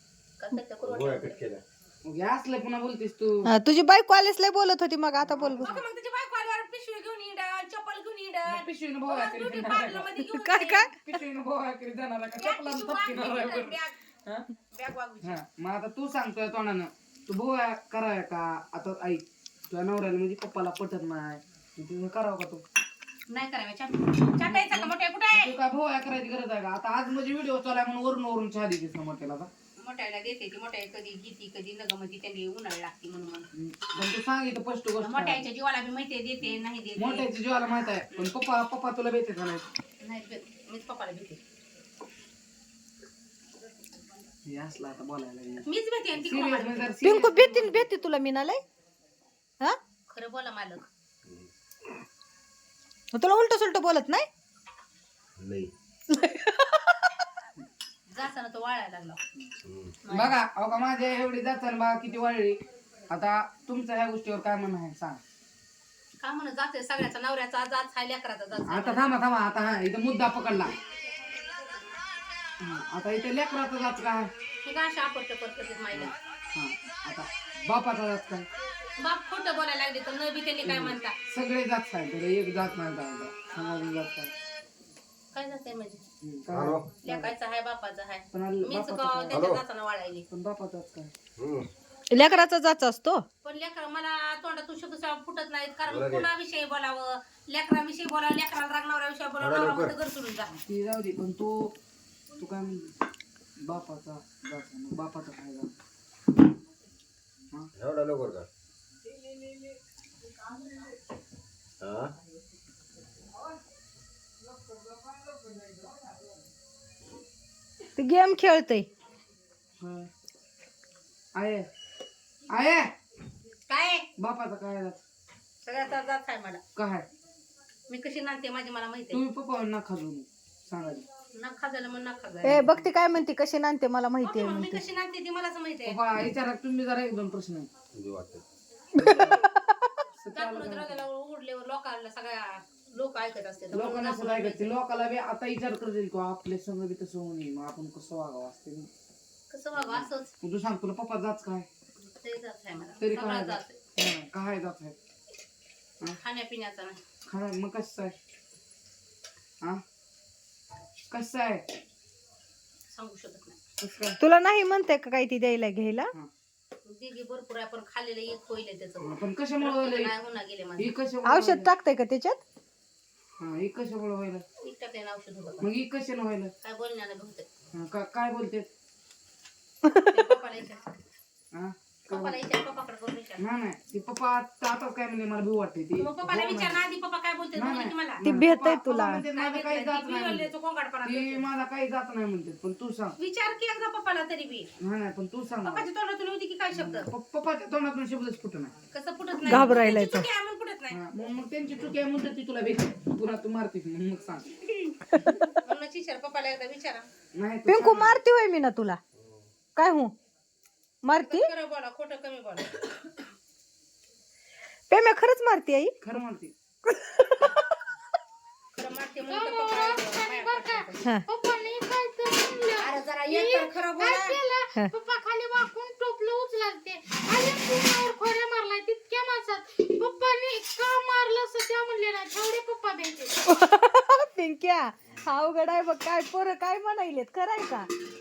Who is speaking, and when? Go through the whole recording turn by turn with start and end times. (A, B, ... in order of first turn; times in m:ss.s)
0:00.4-0:01.5 A
0:00.8-0:01.6 B
0:02.0-0:03.5 C
0:03.5-0:05.7 D
0:05.2-0:05.8 C
0:05.6-0:10.9 A
0:08.4-0:10.1 C
0:10.3-0:10.9 D
0:11.0-0:14.4 C
0:12.4-0:14.0 A
0:14.7-0:15.4 A
0:15.2-0:22.6 C
0:23.3-0:25.5 A
0:24.6-0:29.5 C
0:29.8-0:33.5 A
0:33.5-0:35.4 C
0:35.0-0:37.3 A
0:36.4-0:39.6 C
0:40.0-0:41.4 A
0:44.4-0:47.6 C
0:45.6-0:47.7 A
0:47.0-0:48.6 D
0:50.1-0:50.8 A
0:53.1-0:54.3 D
0:55.4-0:55.7 B
0:56.1-0:57.1 D
0:58.1-0:59.2 A
0:59.6-0:59.9 B
1:00.0-1:00.3 A
1:00.1-1:02.6 C
1:03.1-1:05.2 C
1:06.2-1:09.1 A
1:08.6-1:10.7 C
1:12.6-1:14.3 C
1:14.6-1:16.1 A
1:15.9-1:18.5 C
1:19.0-1:21.1 A
1:20.6-1:24.3 C
1:25.3-1:26.0 A
1:26.2-1:27.3 C
1:26.5-1:26.9 B
1:27.0-1:30.2 A
1:28.3-1:29.4 C
1:29.3-1:29.6 B
1:30.3-1:31.1 C
1:31.4-1:31.7 B
1:32.1-1:33.2 D
1:33.4-1:40.5 A
1:35.8-1:36.3 B
1:39.4-1:39.9 B
1:40.5-1:41.7 C
1:42.4-1:42.9 C
1:43.6-1:45.7 C
1:47.7-1:48.5 B
1:51.8-1:52.1 B
1:58.0-1:58.9 D
1:59.8-2:00.1 C
2:01.3-2:01.7 C
2:02.5-2:02.9 C
2:03.7-2:04.1 A
2:04.2-2:05.0 C
2:05.6-2:06.6 A
2:06.8-2:07.0 C
2:07.9-2:09.2 A
2:09.1-2:11.0 C
2:11.3-2:12.7 A
2:12.4-2:14.8 D
2:14.2-2:16.0 A
2:15.8-2:17.7 C
2:17.9-2:18.4 B
2:18.9-2:20.0 D
2:19.1-2:19.3 B
2:20.1-2:21.0 C
2:20.3-2:24.8 A
2:23.7-2:28.9 C
2:29.5-2:30.3 A
2:29.8-2:31.7 C
2:32.0-2:33.8 A
2:33.0-2:35.0 C
2:36.2-2:37.0 A
2:37.3-2:38.1 C
2:41.1-2:41.6 C
2:42.9-2:43.6 A
2:43.8-2:44.2 C
2:44.2-2:46.1 D
2:46.8-2:50.9 A
2:49.0-2:50.1 C
2:50.8-2:51.7 C
2:51.2-2:52.4 D
2:53.4-2:54.4 C
2:54.6-2:55.7 A
2:55.6-2:56.5 C
2:56.6-2:57.5 A
2:57.7-2:58.7 C
2:59.8-3:00.2 D
3:00.1-3:00.9 A
3:01.5-3:02.4 C
3:02.1-3:03.4 A
3:03.4-3:06.8 C
3:06.0-3:08.2 A
3:07.6-3:10.5 C
3:08.2-3:09.2 D
3:09.3-3:11.5 A
3:11.0-3:13.2 C
3:13.2-3:14.7 A
3:14.8-3:15.9 C
3:15.6-3:17.1 A
3:16.7-3:18.7 C
3:18.9-3:21.0 A
3:19.4-3:20.2 D
3:20.9-3:24.9 C
3:25.1-3:25.5 D
3:25.6-3:27.1 A
3:27.3-3:28.2 C
3:27.7-3:29.0 D
3:29.8-3:30.1 D
3:31.0-3:31.5 D
3:31.2-3:32.7 A
3:34.9-3:35.9 D
3:36.0-3:36.5 C
3:36.8-3:37.7 D
3:38.7-3:41.0 A
3:39.2-3:53.4 E
3:42.8-3:44.4 A
3:53.5-3:57.9 D